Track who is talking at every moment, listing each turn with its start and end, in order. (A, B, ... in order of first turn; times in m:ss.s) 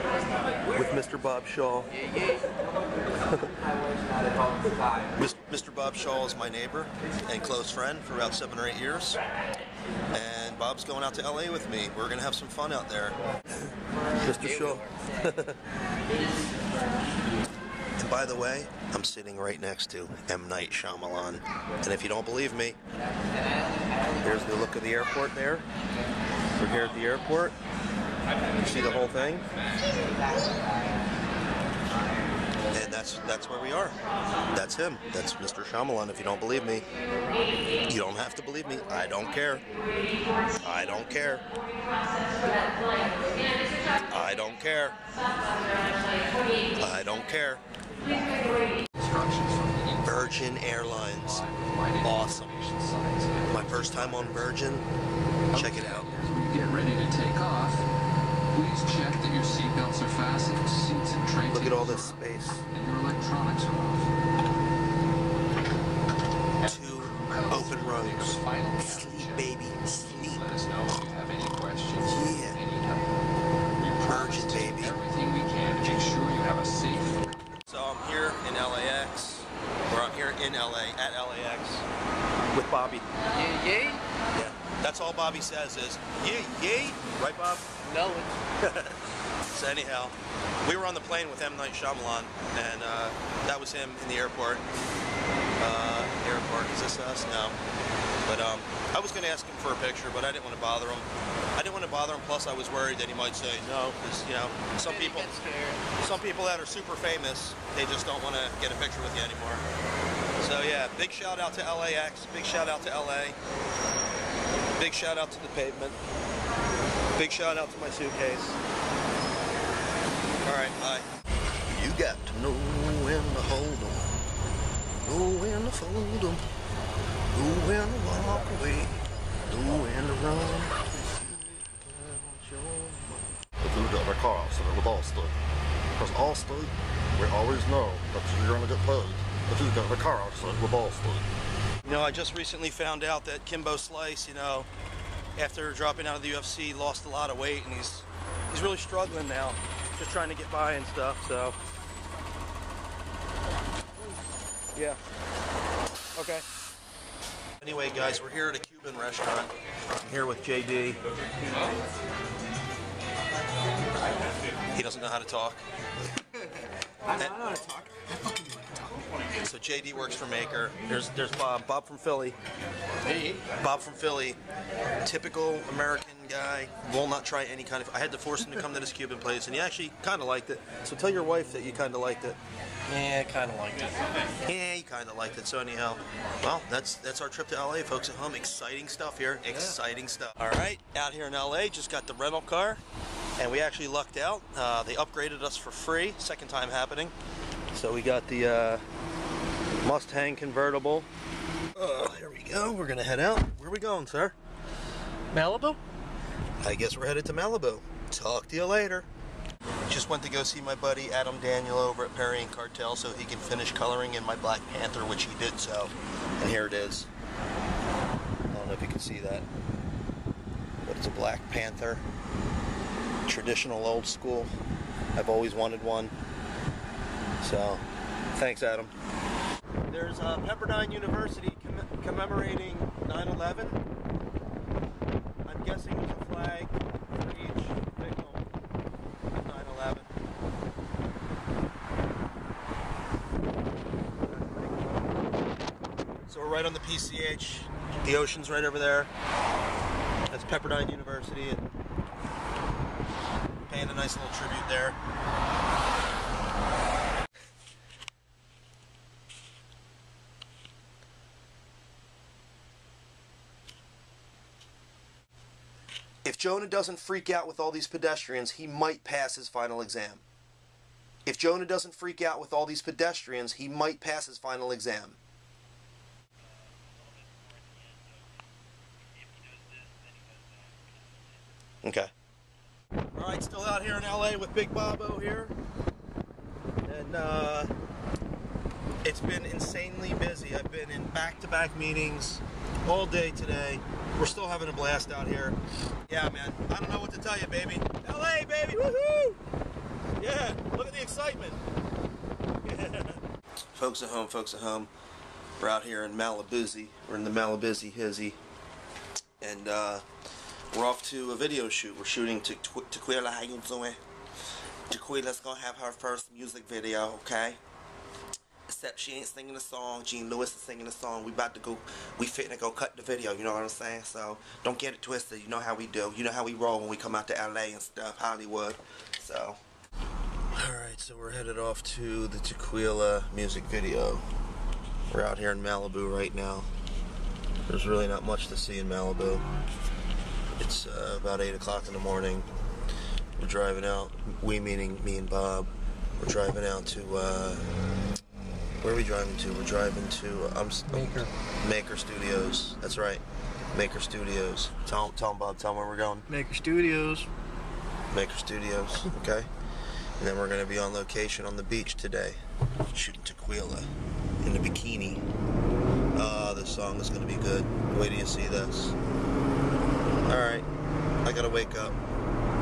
0:00.7-0:01.9 A
0:05.2-0:09.2 A
0:10.1-0:15.6 A
0:18.0-0:22.8 A
0:24.2-0:25.6 A
0:26.6-0:27.6 A
0:28.6-0:29.4 A
0:32.7-0:34.0 A
0:34.5-0:36.8 A
0:37.9-0:39.7 A
0:40.6-0:41.4 A
0:44.1-0:45.0 A
0:46.8-0:47.6 A
0:48.9-0:54.5 B
0:50.0-0:51.4 A
0:52.0-0:52.5 A
0:53.5-0:54.8 A
0:55.5-0:57.9 B
0:55.5-0:56.1 A
0:58.5-1:04.1 B
1:01.5-1:02.6 A
1:06.6-1:13.2 B
1:06.6-1:10.4 A
1:12.0-1:12.6 A
1:13.8-1:17.3 B
1:14.0-1:15.0 A
1:17.6-1:21.8 A
1:22.5-1:23.0 A
1:23.4-1:24.0 C
1:24.3-1:27.7 A
1:27.9-1:28.3 C
1:28.6-1:29.0 A
1:29.5-1:34.6 A
1:35.6-1:37.6 A
1:38.2-1:45.4 A
1:45.1-1:45.5 C
1:46.0-1:49.6 A
1:50.4-1:53.4 A
1:54.8-1:56.0 A
1:57.2-1:58.6 A
2:00.4-2:01.1 A
2:01.7-2:04.1 A
2:05.0-2:06.4 A
2:07.3-2:13.3 A
2:13.6-2:15.3 D
2:16.0-2:21.3 D
2:21.8-2:24.7 A
2:25.4-2:31.6 A
2:36.2-2:36.4 A
2:37.6-2:41.0 A
2:44.7-2:45.6 A
2:47.1-2:48.0 A
2:49.4-2:52.4 A
2:53.4-2:54.4 A
2:55.0-3:02.4 A
3:02.9-3:03.2 A
3:03.2-3:03.9 C
3:04.4-3:12.8 A
3:13.4-3:17.1 A
3:17.7-3:18.8 A
3:19.8-3:21.1 A
3:21.7-3:24.4 A
3:25.3-3:25.8 A
3:26.6-3:29.1 A
3:29.9-3:37.1 A
3:38.5-3:39.4 A
3:40.8-3:42.0 A
3:43.3-3:44.5 A
3:45.1-3:46.1 A
3:47.4-3:47.8 A
3:48.3-3:48.9 A
3:49.9-3:53.8 A
3:55.4-3:58.5 A
3:59.3-4:00.1 A
4:04.2-4:05.1 A
4:06.3-4:09.1 A
4:10.3-4:11.6 A
4:13.7-4:15.0 A
4:26.2-4:30.2 A
4:31.2-4:35.2 A
4:41.8-4:42.1 A
4:43.1-4:45.5 A
4:46.8-4:47.7 A
4:49.0-4:55.6 A
4:56.1-4:59.4 A
5:00.2-5:01.6 A
5:02.6-5:03.2 A
5:03.7-5:04.9 A
5:05.6-5:08.4 A
5:09.4-5:10.0 A
5:10.7-5:14.0 A
5:14.9-5:17.6 A
5:18.7-5:29.6 A
5:30.5-5:34.2 A
5:35.1-5:36.7 A
5:37.7-5:39.4 A
5:40.6-5:42.5 A
5:43.4-5:47.7 A
5:48.8-5:53.2 A
5:53.7-5:56.3 A
5:56.3-5:57.3 C
5:58.1-5:59.5 A
6:00.2-6:02.4 A
6:02.9-6:03.9 A
6:04.4-6:05.2 A
6:06.1-6:09.0 A
6:10.2-6:10.7 A
6:11.2-6:12.0 A